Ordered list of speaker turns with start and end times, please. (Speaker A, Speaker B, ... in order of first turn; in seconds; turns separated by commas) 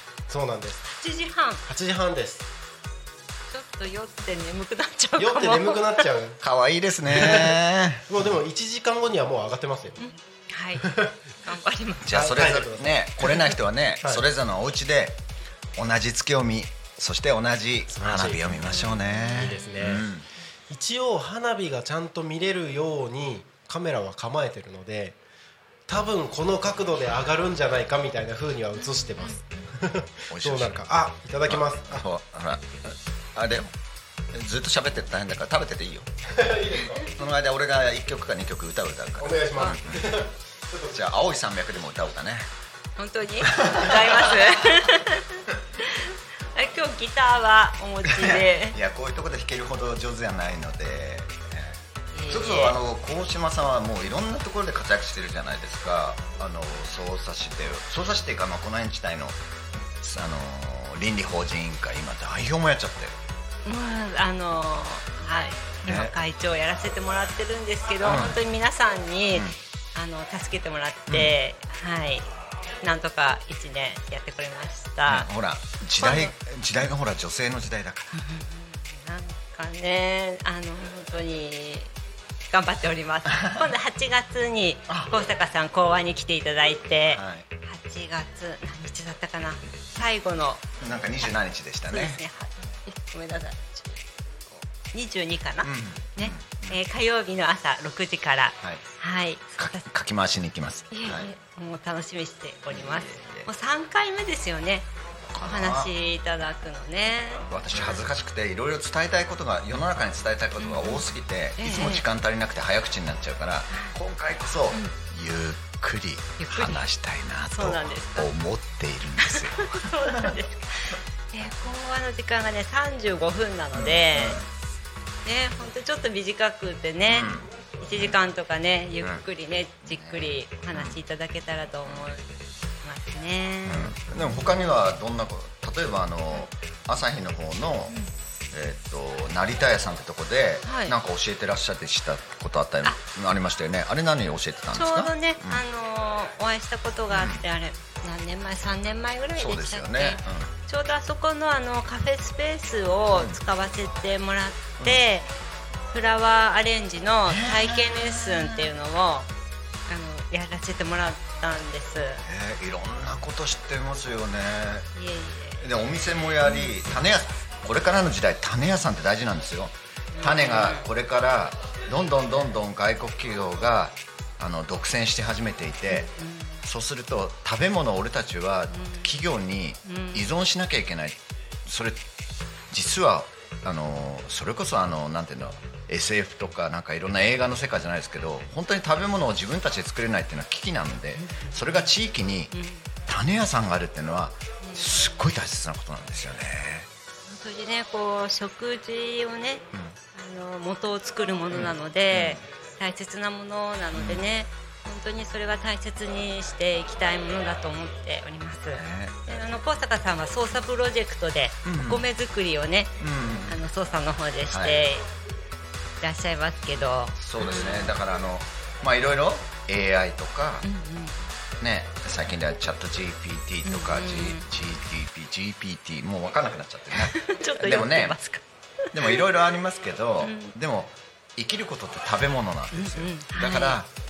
Speaker A: 0.3-0.9, Speaker B: 0.9-1.6, Speaker A: 1.7-2.5, Speaker B: 3.5-6.0, Speaker A: 5.2-6.4, Speaker C: 6.4-8.1, Speaker A: 7.1-10.0, Speaker B: 10.0-10.9, Speaker A: 10.8-11.1, Speaker B: 11.4-12.2, Speaker C: 12.0-15.2, Speaker A: 12.1-12.9, Speaker C: 15.8-20.2, Speaker A: 17.9-18.5, Speaker B: 18.6-19.7, Speaker A: 19.3-20.0, Speaker A: 20.7-25.2, Speaker A: 25.9-32.0, Speaker B: 28.9-29.3, Speaker C: 30.3-30.8, Speaker C: 31.4-33.7, Speaker C: 34.3-36.1, Speaker A: 36.3-37.1, Speaker C: 36.9-40.1, Speaker A: 39.2-41.0, Speaker C: 40.9-42.5, Speaker B: 43.0-48.8, Speaker C: 43.4-44.8, Speaker C: 48.0-59.4, Speaker B: 52.1-52.8, Speaker C: 60.0-63.1, Speaker B: 63.6-72.2, Speaker C: 65.8-66.1, Speaker C: 68.0-68.5, Speaker C: 71.1-71.3, Speaker B: 72.8-75.3, Speaker C: 75.0-78.2, Speaker B: 76.0-76.3, Speaker B: 78.1-81.9, Speaker B: 82.5-90.6, Speaker C: 83.3-83.7, Speaker C: 84.9-85.3, Speaker C: 87.1-87.5, Speaker C: 90.8-92.2, Speaker B: 91.9-94.0, Speaker B: 94.9-99.9, Speaker C: 95.6-96.8, Speaker C: 98.6-98.8, Speaker C: 99.6-101.3, Speaker B: 100.9-108.0, Speaker C: 102.7-103.5, Speaker C: 105.3-105.9, Speaker C: 107.5-120.3, Speaker B: 110.6-111.0, Speaker B: 111.6-112.0, Speaker B: 113.7-113.9, Speaker B: 114.7-115.0, Speaker B: 116.4-116.8, Speaker B: 117.5-118.3, Speaker B: 119.2-124.4, Speaker C: 123.7-124.5, Speaker B: 125.2-132.2, Speaker C: 127.1-128.2, Speaker C: 129.0-129.2, Speaker C: 129.8-131.0, Speaker C: 131.8-132.1, Speaker B: 132.8-134.8, Speaker C: 133.6-137.9, Speaker C: 138.5-145.6, Speaker B: 140.6-140.9, Speaker B: 144.7-155.3, Speaker C: 147.1-147.4, Speaker C: 149.3-150.5, Speaker C: 153.1-153.4, Speaker B: 155.9-159.3, Speaker C: 157.2-158.7, Speaker B: 159.9-162.2, Speaker C: 162.2-164.9, Speaker B: 164.9-165.6, Speaker C: 165.6-176.1, Speaker B: 166.4-166.8, Speaker B: 170.1-170.9, Speaker B: 175.9-176.6, Speaker C: 176.6-182.0, Speaker B: 178.7-179.1, Speaker B: 179.8-180.3, Speaker C: 182.7-192.5, Speaker B: 191.2-191.8, Speaker B: 192.5-192.9, Speaker C: 193.1-196.9, Speaker B: 194.6-195.1, Speaker B: 197.3-212.9, Speaker C: 201.5-202.5, Speaker C: 203.9-204.3, Speaker C: 208.7-209.5, Speaker C: 211.6-212.1, Speaker C: 213.0-213.6, Speaker B: 213.5-215.0, Speaker C: 214.5-214.8, Speaker B: 216.0-217.9, Speaker C: 217.2-220.6, Speaker B: 220.6-221.2, Speaker C: 221.6-228.2, Speaker B: 223.6-224.4, Speaker B: 226.9-228.4, Speaker B: 228.9-229.2, Speaker C: 228.9-233.9, Speaker B: 230.2-230.5, Speaker B: 232.7-233.8